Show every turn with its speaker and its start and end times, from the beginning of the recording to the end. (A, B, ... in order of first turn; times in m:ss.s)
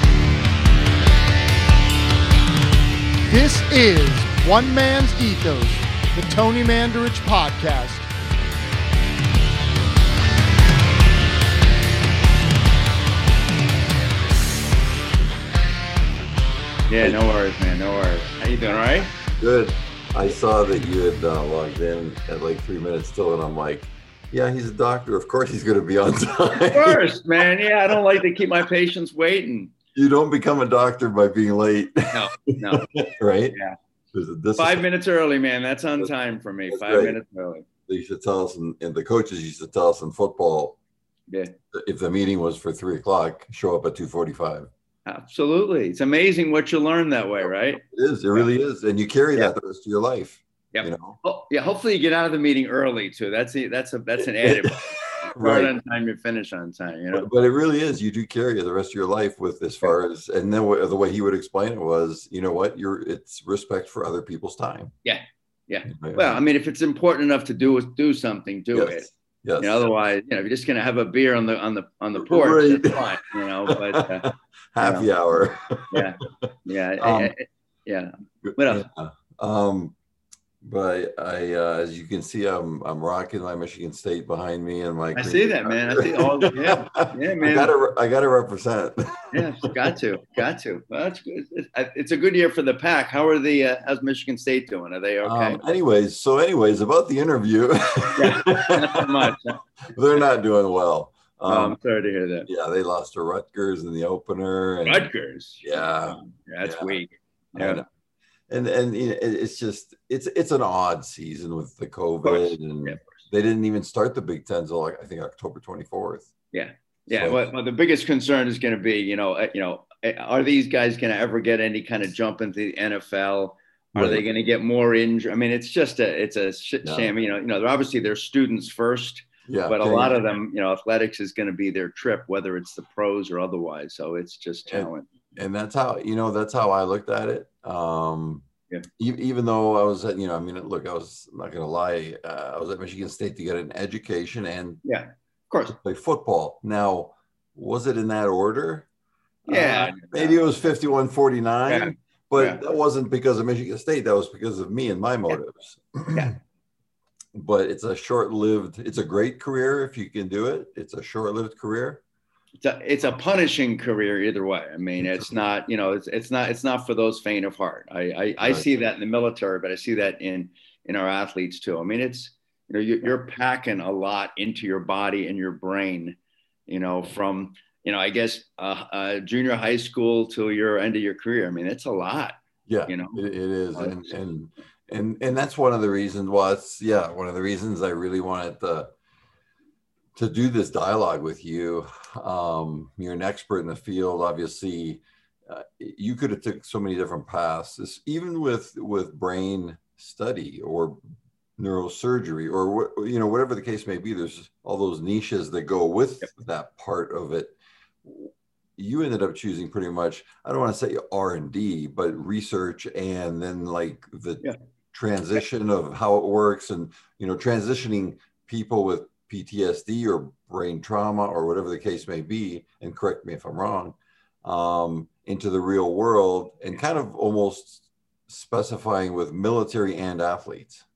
0:03.3-0:08.1 A
0:16.9-0:19.1 B
0:19.4-0:27.0 C
0:26.7-0:29.7 B
0:27.9-0:28.2 C
0:29.9-0:33.6 C
0:32.1-0:32.9 B
0:34.1-0:34.8 C
0:34.6-0:37.6 B
0:36.7-0:37.2 C
0:37.9-0:40.8 C
0:41.3-0:41.5 B
0:41.7-0:44.7 C
0:45.0-0:47.8 B
0:47.8-0:51.2 C
0:50.7-0:57.3 B
0:54.2-0:55.7 C
0:57.1-1:04.9 C
1:05.0-1:15.1 B
1:05.9-1:06.4 C
1:08.7-1:09.8 C
1:12.2-1:16.5 C
1:15.9-1:18.8 B
1:17.0-1:17.3 C
1:18.4-1:19.9 C
1:20.6-1:29.7 C
1:25.1-1:27.7 B
1:29.3-1:35.6 B
1:35.2-1:41.8 C
1:38.2-1:39.6 B
1:41.5-1:42.5 B
1:42.4-1:45.1 C
1:44.8-1:47.8 B
1:45.6-1:47.0 C
1:47.5-1:47.8 C
1:48.5-1:56.3 C
1:52.2-1:53.1 B
1:56.5-2:15.1 B
1:57.1-1:57.4 C
2:03.9-2:04.2 C
2:06.8-2:07.1 C
2:09.5-2:10.2 C
2:14.7-2:18.4 C
2:19.0-2:24.8 C
2:24.8-2:25.8 B
2:25.7-2:28.9 C
2:29.4-2:36.4 C
2:29.5-2:30.4 B
2:31.7-2:32.6 B
2:37.3-2:42.0 C
2:42.6-2:56.2 B
2:45.0-2:45.4 C
2:56.7-3:03.2 B
3:02.7-3:08.9 C
3:03.7-3:04.0 B
3:10.2-3:21.0 C
3:21.6-3:50.8 C